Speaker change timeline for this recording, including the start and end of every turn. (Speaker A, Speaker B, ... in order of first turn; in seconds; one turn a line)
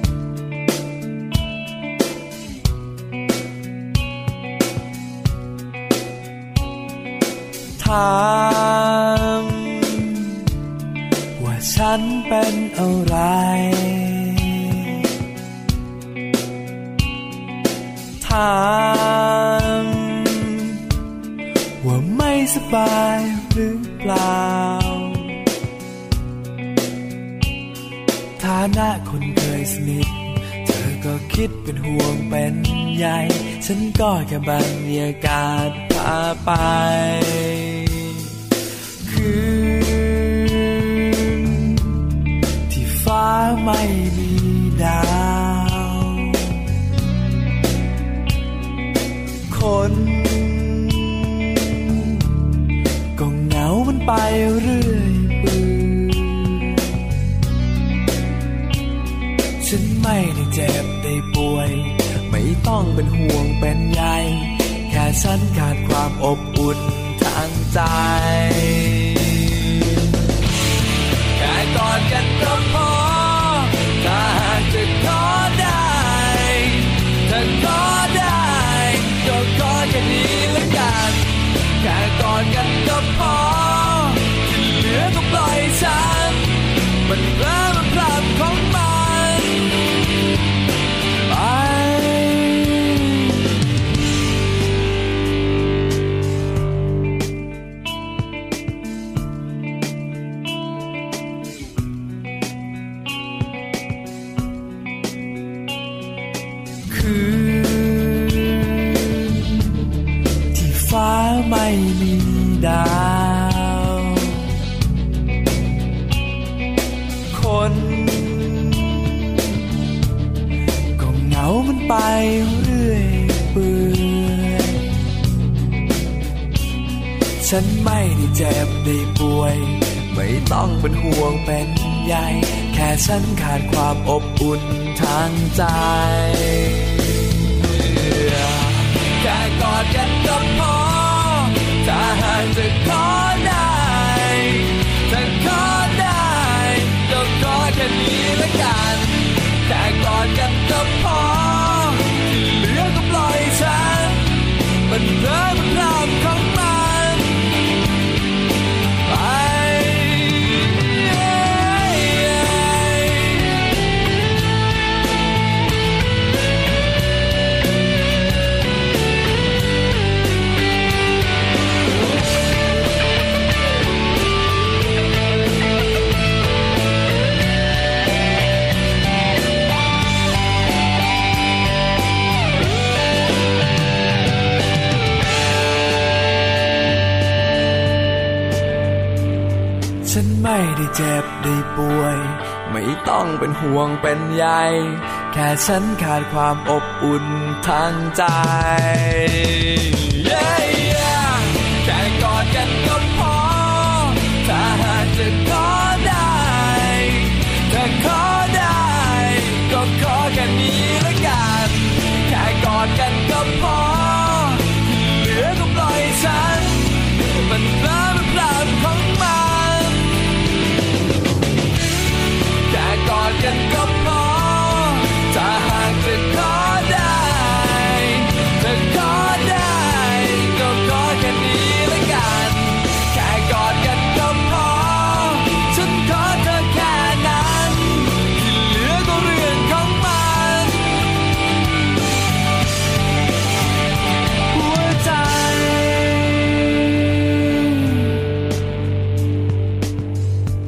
Speaker A: 7.8-10.2
Speaker A: 11.4-14.9
Speaker A: 18.2-20.8
Speaker A: 21.8-25.3
Speaker A: 28.4-38.3
Speaker A: 39.0-41.8
Speaker A: 42.7-46.4
Speaker A: 49.5-52.1
Speaker A: 53.2-56.7
Speaker A: 59.6-70.0
Speaker A: 71.4-89.7
Speaker A: 91.3-93.3
Speaker A: 106.9-109.6
Speaker A: 110.5-114.4
Speaker A: 117.3-119.4
Speaker A: 121.0-124.8
Speaker A: 127.4-136.9
Speaker A: 137.6-157.5
Speaker A: 159.1-163.7
Speaker A: 190.0-220.1
Speaker A: 222.7-241.0
Speaker A: 244.5-248.0